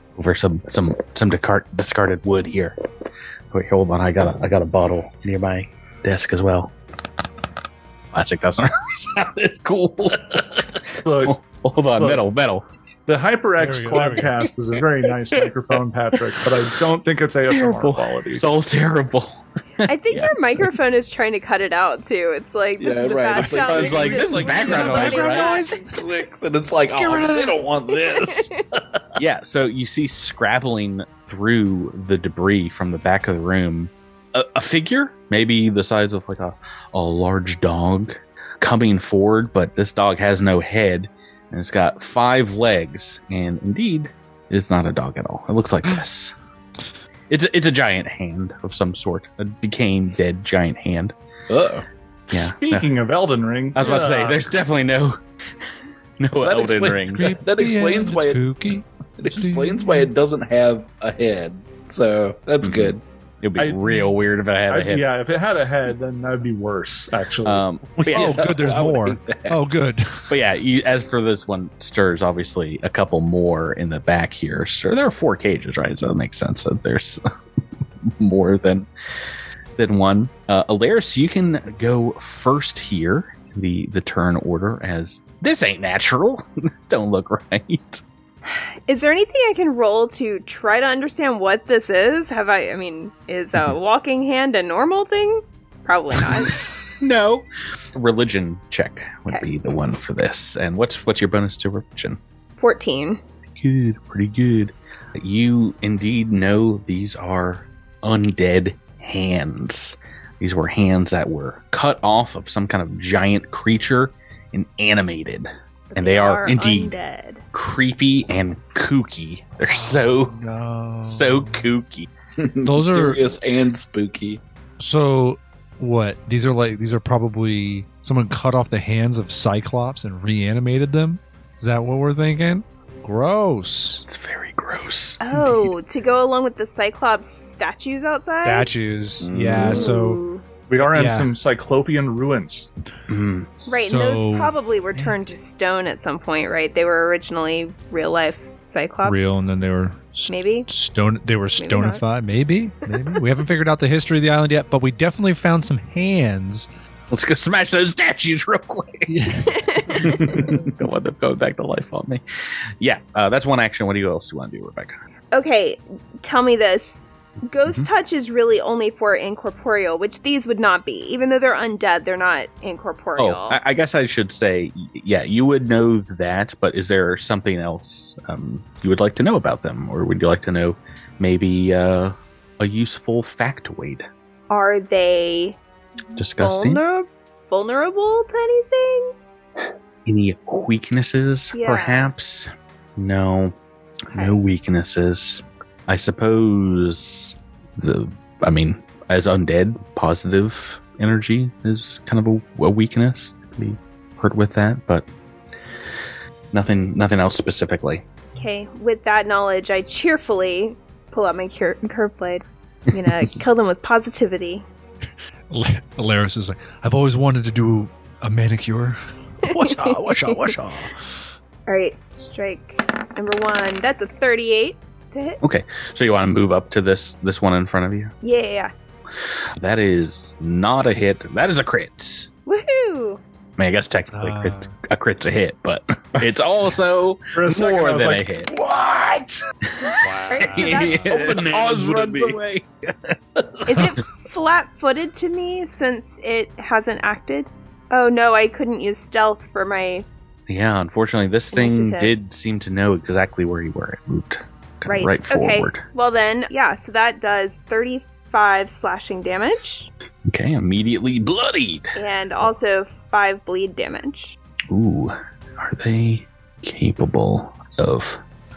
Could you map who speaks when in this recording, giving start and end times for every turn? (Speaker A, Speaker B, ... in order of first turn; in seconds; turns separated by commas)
Speaker A: 0.2-2.8, Speaker A: 3.5-6.7, Speaker A: 8.1-12.7, Speaker B: 11.0-11.4, Speaker B: 12.0-12.2, Speaker B: 13.1-18.5, Speaker C: 13.6-14.3, Speaker A: 17.5-20.7, Speaker D: 19.9-25.9, Speaker E: 22.8-29.1, Speaker A: 23.5-25.6, Speaker C: 24.4-25.9, Speaker C: 26.9-27.6, Speaker D: 27.9-28.5, Speaker A: 29.2-46.3, Speaker A: 47.3-51.1, Speaker E: 51.5-51.9, Speaker A: 52.3-52.9, Speaker B: 52.3-54.5, Speaker A: 53.7-55.2, Speaker A: 56.2-57.3, Speaker E: 56.4-58.5, Speaker C: 57.1-60.1, Speaker E: 59.2-63.0, Speaker A: 62.6-65.1, Speaker B: 63.6-64.1, Speaker B: 64.7-67.7, Speaker A: 67.4-68.5, Speaker E: 68.0-69.6, Speaker C: 68.1-70.3, Speaker A: 70.3-77.2, Speaker A: 78.1-78.9, Speaker A: 79.8-88.0, Speaker D: 88.5-96.6, Speaker A: 96.2-102.2, Speaker D: 102.6-103.2, Speaker A: 103.6-117.0, Speaker D: 115.9-117.4, Speaker A: 117.5-120.3, Speaker C: 119.7-121.7, Speaker A: 121.0-122.1, Speaker E: 122.4-124.4, Speaker C: 122.7-123.3, Speaker C: 124.8-134.1, Speaker A: 134.1-135.6, Speaker D: 135.2-138.7, Speaker C: 138.4-140.2, Speaker E: 139.2-139.9, Speaker D: 139.7-140.4, Speaker B: 140.7-142.7, Speaker C: 140.9-141.3, Speaker A: 143.1-143.5, Speaker D: 143.7-149.3, Speaker C: 143.7-144.6, Speaker C: 149.0-156.7, Speaker D: 150.3-150.7, Speaker D: 151.6-152.0, Speaker A: 157.1-159.2, Speaker C: 159.1-159.6, Speaker D: 159.4-160.4, Speaker A: 159.9-162.2, Speaker A: 162.8-165.0, Speaker D: 165.3-173.6, Speaker A: 173.2-184.1, Speaker D: 184.5-185.6, Speaker D: 186.2-189.1, Speaker A: 186.2-186.8, Speaker A: 190.1-193.5, Speaker D: 191.5-192.1, Speaker D: 194.1-194.4, Speaker A: 194.1-205.1, Speaker A: 206.5-208.1, Speaker D: 208.3-214.7, Speaker C: 215.5-220.8, Speaker D: 219.4-220.5, Speaker A: 219.7-220.9, Speaker D: 221.7-225.4, Speaker A: 225.4-228.1, Speaker D: 228.2-228.7, Speaker A: 229.6-232.3, Speaker D: 232.5-233.2, Speaker A: 233.6-238.5, Speaker C: 234.1-234.7, Speaker B: 237.3-238.3, Speaker E: 238.5-239.4, Speaker A: 239.8-243.1, Speaker C: 240.0-240.9, Speaker D: 240.2-241.1, Speaker E: 240.6-242.4, Speaker D: 243.7-250.1, Speaker A: 250.5-255.8, Speaker D: 251.5-252.2, Speaker D: 254.9-259.9, Speaker A: 260.3-262.0, Speaker D: 261.9-264.4, Speaker A: 264.7-268.2